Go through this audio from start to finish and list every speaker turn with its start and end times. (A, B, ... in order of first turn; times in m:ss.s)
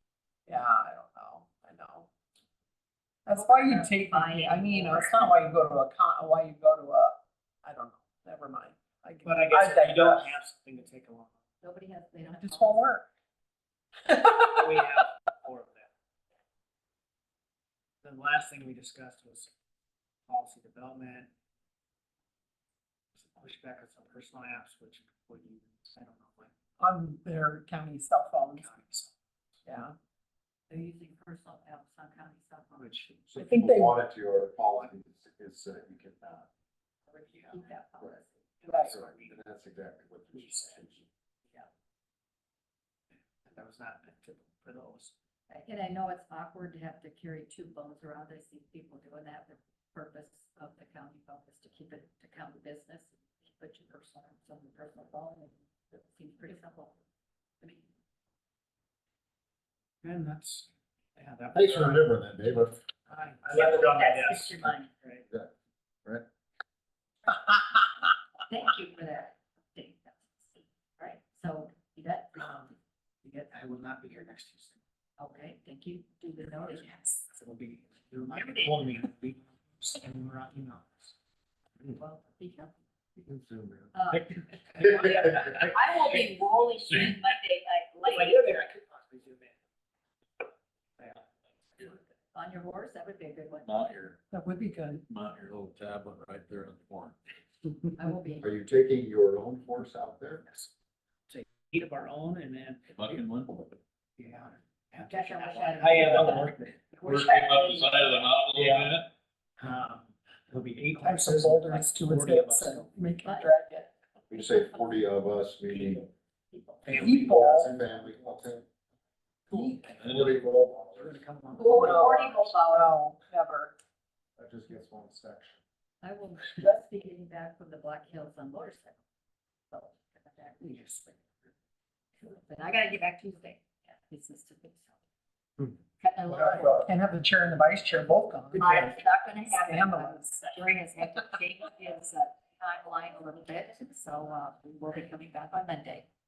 0:00.5-0:02.1 A
0:03.2-0:10.4 A
0:03.3-0:05.3 B
0:09.2-0:11.3 C
0:11.6-0:12.9 B
0:12.4-0:13.0 A
0:14.1-0:14.5 A
0:14.5-0:15.9 C
0:18.0-0:19.5 C
0:20.3-0:21.3 C
0:23.2-0:26.5 C
0:26.8-0:28.7 A
0:28.5-0:29.1 C
0:29.6-0:29.9 A
0:30.7-0:33.1 B
0:32.8-0:33.1 C
0:33.3-0:36.5 D
0:33.4-0:34.0 A
0:37.1-0:38.9 B
0:38.6-0:39.4 C
0:38.7-0:38.9 A
0:38.9-0:41.0 D
0:40.3-0:40.8 C
0:43.4-0:45.1 C
0:45.5-0:57.0 B
0:57.6-0:57.8 B
1:00.0-1:02.1 C
1:01.5-1:02.8 D
1:03.1-1:04.9 B
1:03.1-1:05.2 C
1:03.5-1:04.4 D
1:08.5-1:12.7 B
1:12.4-1:12.7 C
1:13.2-1:14.8 C
1:15.2-1:17.0 B
1:16.7-1:21.1 C
1:18.3-1:18.7 B
1:21.9-1:22.7 B
1:23.2-1:23.9 D
1:23.9-1:28.4 B
1:24.1-1:26.2 C
1:28.0-1:29.6 C
1:31.8-1:33.9 B
1:33.6-1:34.2 E
1:34.3-1:35.0 A
1:35.1-1:37.2 E
1:38.0-1:38.5 B
1:38.4-1:40.5 D
1:41.3-1:43.2 C
1:42.9-1:43.6 E
1:44.2-1:47.9 C
1:45.0-1:46.5 B
1:47.0-1:49.0 E
1:47.2-1:48.3 B
1:48.5-1:49.0 C
1:49.6-1:52.9 C
1:51.0-1:53.9 A
1:53.2-1:53.5 B
1:54.3-1:56.0 D
1:54.3-1:55.0 B
1:56.5-1:57.0 B
1:56.8-1:58.6 C
1:56.9-1:58.6 D
1:56.9-1:57.7 A
1:59.5-2:00.4 C
1:59.5-2:01.2 D
1:59.5-1:59.8 A
1:59.9-2:00.3 E
2:00.9-2:02.4 C
2:01.6-2:03.0 B
2:01.7-2:03.7 A
2:04.4-2:05.5 D
2:06.0-2:09.0 B
2:09.7-2:11.1 B
2:10.6-2:11.1 C
2:12.2-2:14.9 B
2:16.0-2:16.9 B
2:16.3-2:20.5 A
2:18.5-2:26.0 B